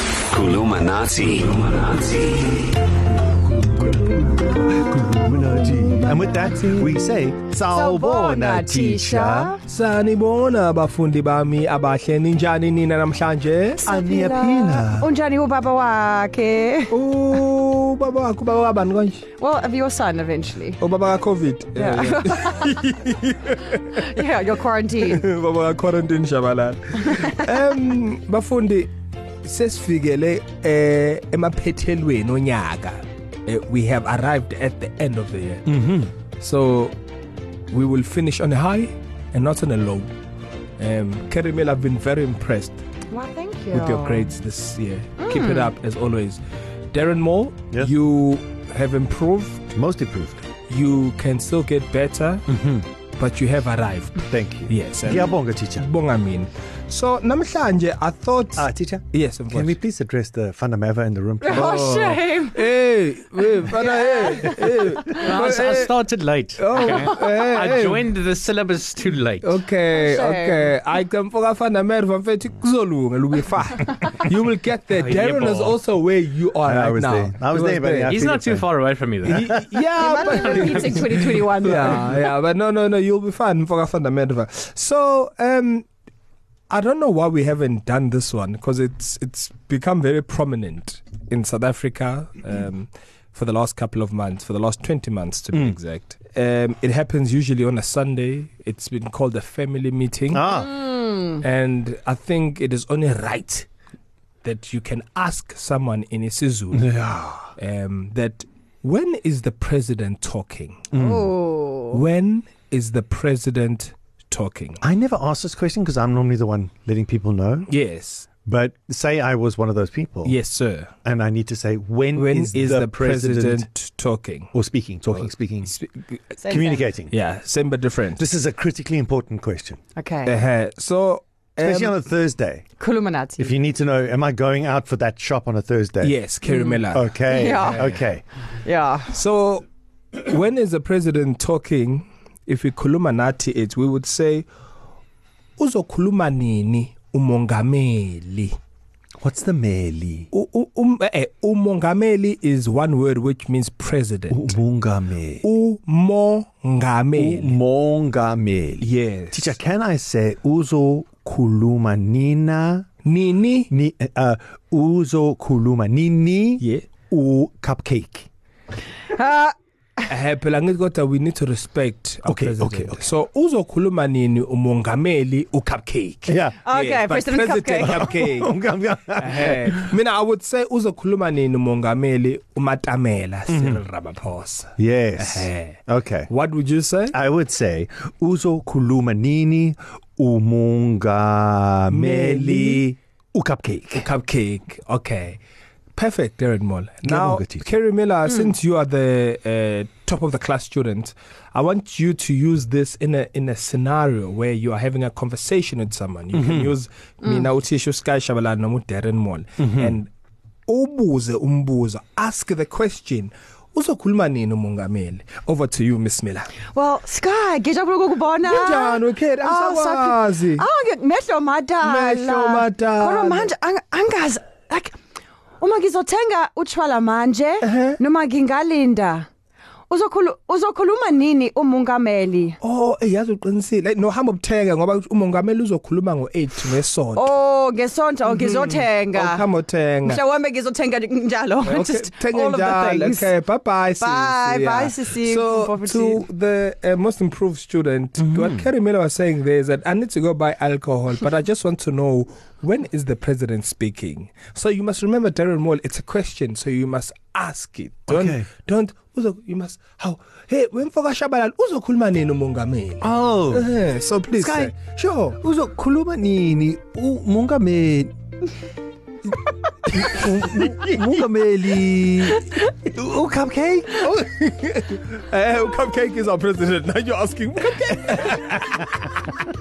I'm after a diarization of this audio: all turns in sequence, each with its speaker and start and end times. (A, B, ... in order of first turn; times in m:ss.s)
0:00.3-0:02.4 A
0:03.7-0:04.4 B
0:03.9-0:09.6 C
0:04.9-0:07.0 B
0:07.7-0:09.6 D
0:09.7-0:13.8 B
0:13.8-0:17.0 D
0:13.8-0:15.1 C
0:16.9-0:19.3 B
0:19.4-0:20.8 D
0:20.8-0:24.0 B
0:21.8-0:22.7 D
0:23.8-0:25.2 D
0:25.0-0:28.9 B
0:29.4-0:35.6 B
0:35.7-0:36.1 C
0:36.4-0:37.0 B
0:37.7-0:40.1 B
0:40.8-0:42.8 B
0:43.1-0:44.3 D
0:43.7-0:46.4 B
0:45.2-0:45.7 D
0:46.9-0:49.6 B
0:49.7-0:50.4 C
0:50.7-0:52.4 B
0:52.5-0:52.9 C
0:53.2-0:59.8 B
0:54.3-0:55.9 C
0:58.6-1:02.2 C
1:01.4-1:02.6 D
1:01.4-1:06.0 B
1:03.7-1:05.4 D
1:05.2-1:09.6 E
1:06.6-1:08.1 B
1:06.8-1:07.4 D
1:09.4-1:18.2 B
1:09.9-1:10.8 D
1:14.9-1:15.8 E
1:16.6-1:18.7 C
1:18.1-1:19.5 E
1:19.2-1:25.8 B
1:19.3-1:19.6 C
1:20.0-1:22.2 D
1:26.7-1:40.5 B
1:40.3-1:40.9 C
1:40.8-1:41.3 D
1:41.4-1:43.7 B
1:44.4-1:47.0 B
1:46.7-1:47.5 C
1:47.6-1:50.9 B
1:50.9-1:51.4 C
1:50.9-1:52.0 D
1:51.9-1:54.8 B
1:54.8-1:57.7 C
1:57.7-1:58.3 B
1:58.4-2:00.4 C
2:00.2-2:00.9 B
2:01.0-2:03.7 C
2:02.2-2:04.5 B
2:04.5-2:05.8 C
2:05.6-2:06.2 B
2:06.4-2:06.8 D
2:06.5-2:07.2 C
2:07.1-2:08.2 B
2:08.2-2:09.8 C
2:10.0-2:10.4 D
2:10.2-2:12.0 B
2:11.6-2:12.7 C
2:12.8-2:13.6 D
2:13.4-2:16.2 C
2:16.0-2:18.0 B
2:16.4-2:18.0 D
2:16.9-2:18.2 C
2:18.6-2:19.1 D
2:19.1-2:19.6 B
2:20.2-2:24.5 B
2:25.6-2:28.6 B
2:29.2-2:30.3 C
2:30.3-2:34.6 B
2:34.3-2:35.4 C
2:35.4-2:37.6 B
2:37.2-2:42.9 C
2:38.8-2:39.6 B
2:43.0-2:43.7 B
2:43.7-2:48.3 C
2:46.6-2:46.9 B
2:49.1-2:49.6 D
2:50.1-2:58.5 B
2:52.2-2:53.1 C
2:56.3-2:56.6 C
2:56.6-2:58.0 D
2:57.9-2:59.9 C
2:59.2-3:07.2 B
3:03.5-3:03.8 C
3:04.8-3:06.3 C
3:07.1-3:14.1 C
3:11.9-3:12.9 B
3:14.0-3:15.4 B
3:16.0-3:30.1 B
3:17.0-3:17.7 C
3:26.3-3:26.7 C
3:29.6-3:30.0 C
3:30.7-3:36.6 B
3:36.6-3:45.0 D
3:38.4-3:40.6 B
3:41.8-3:43.5 B
3:45.6-3:49.3 D
3:47.6-3:48.0 B
3:49.9-3:52.6 D
3:52.6-3:57.2 B
3:57.2-3:59.5 D
3:58.3-4:00.2 B
4:00.0-4:03.3 D
4:01.6-4:25.4 B
4:04.0-4:06.2 D
4:08.2-4:08.7 C
4:18.1-4:18.5 C
4:23.0-4:23.7 C
4:24.4-4:24.8 C
4:25.4-4:28.1 C
4:29.9-4:34.0 C
4:30.2-4:31.2 B
4:34.0-4:39.4 B